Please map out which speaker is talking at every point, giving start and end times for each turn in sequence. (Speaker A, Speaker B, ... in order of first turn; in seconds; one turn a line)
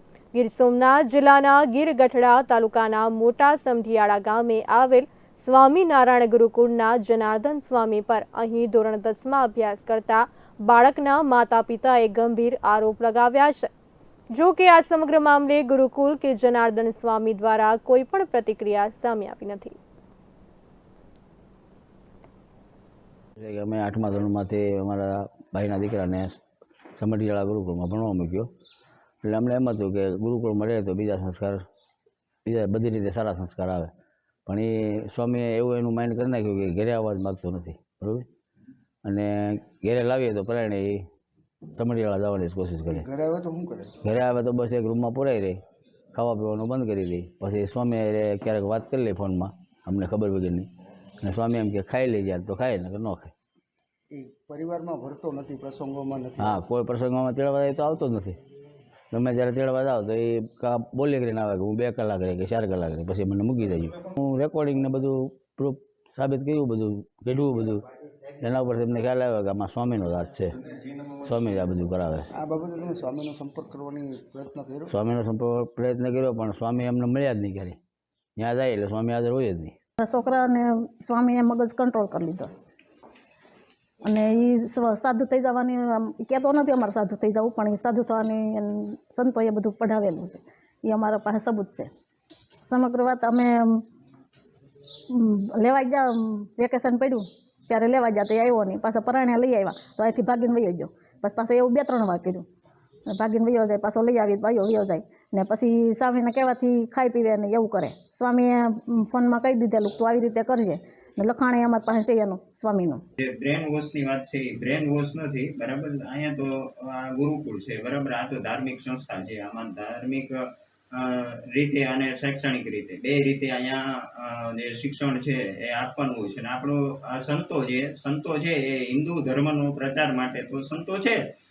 Speaker A: 0.3-13.7
Speaker A: 14.3-19.8
Speaker B: 23.4-26.4
Speaker B: 27.0-28.5
Speaker B: 29.2-31.6
Speaker B: 32.5-33.9
Speaker B: 34.5-38.3
Speaker B: 39.0-41.0
Speaker B: 41.7-43.0
Speaker C: 42.9-44.0
Speaker B: 44.0-45.6
Speaker B: 46.1-50.7
Speaker B: 51.2-53.3
Speaker C: 54.1-56.6
Speaker B: 56.4-58.4
Speaker B: 59.1-67.8
Speaker B: 68.4-70.6
Speaker B: 71.2-72.3
Speaker C: 72.3-74.9
Speaker B: 74.9-77.8
Speaker B: 78.4-79.7
Speaker D: 80.0-82.6
Speaker D: 84.0-91.9
Speaker D: 92.6-93.8
Speaker D: 95.1-102.4
Speaker D: 103.1-113.0
Speaker E: 113.2-131.2